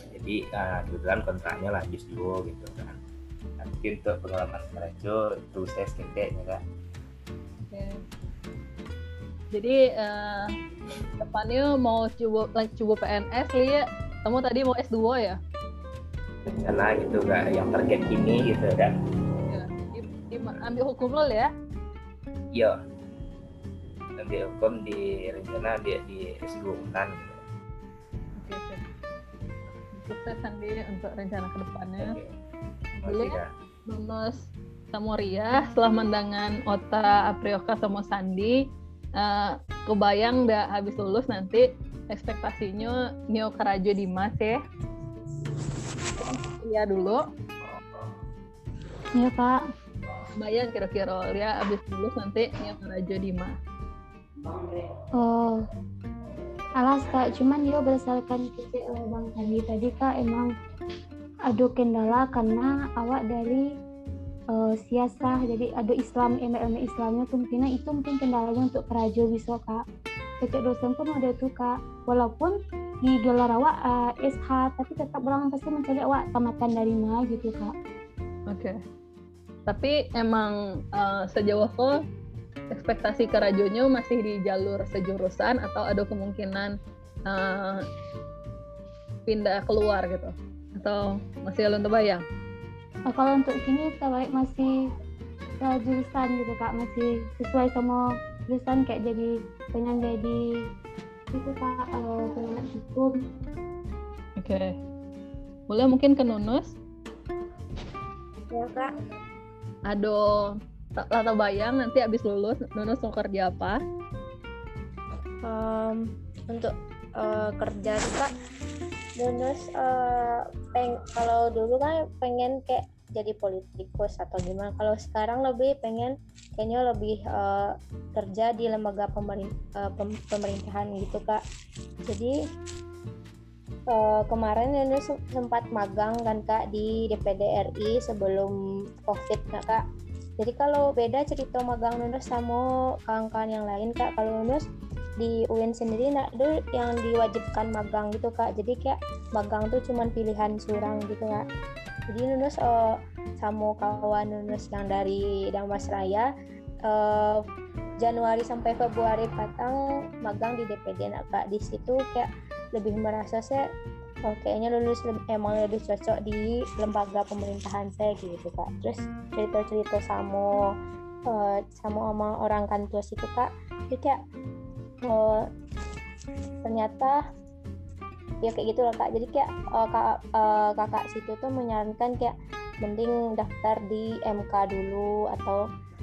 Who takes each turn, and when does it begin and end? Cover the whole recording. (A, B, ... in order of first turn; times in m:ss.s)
0:00.1-0:03.0 A
0:03.6-0:06.6 A
0:07.6-0:08.0 B
0:09.5-0:10.5 B
0:11.2-0:15.4 B
0:16.4-0:18.9 A
0:19.5-0:21.5 B
0:24.2-0:27.4 A
0:28.4-0:28.8 B
0:29.9-0:32.2 B
0:32.0-0:32.3 A
0:33.0-0:33.5 A
0:33.1-0:38.6 B
0:39.2-0:44.6 B
0:46.2-0:47.2 B
0:49.2-0:49.6 C
0:50.4-0:53.6 B
0:55.2-0:55.6 C
0:56.8-1:00.5 C
1:01.5-1:03.6 C
1:04.5-1:09.8 C
1:10.4-1:17.7 C
1:18.5-1:18.8 B
1:19.7-1:22.0 B
1:22.7-1:26.8 B
1:27.3-1:27.8 B
1:29.2-1:32.2 B
1:33.1-1:34.7 C
1:35.6-1:40.4 C
1:41.3-1:43.1 C
1:44.4-1:44.7 B
1:45.7-1:46.7 B
1:48.5-1:48.9 D
1:49.9-1:53.8 B
1:55.4-1:58.3 D
1:59.2-2:11.4 D
2:13.9-2:18.5 D
2:19.0-2:19.8 D
2:20.4-2:24.6 D
2:25.2-2:31.4 D
2:32.1-2:32.9 D
2:33.4-2:36.2 D
2:36.9-2:37.4 D
2:38.0-2:43.6 D
2:44.3-2:50.5 D
2:51.3-2:54.2 D
2:55.1-2:55.4 D
2:56.6-2:57.2 D
2:58.4-3:05.6 D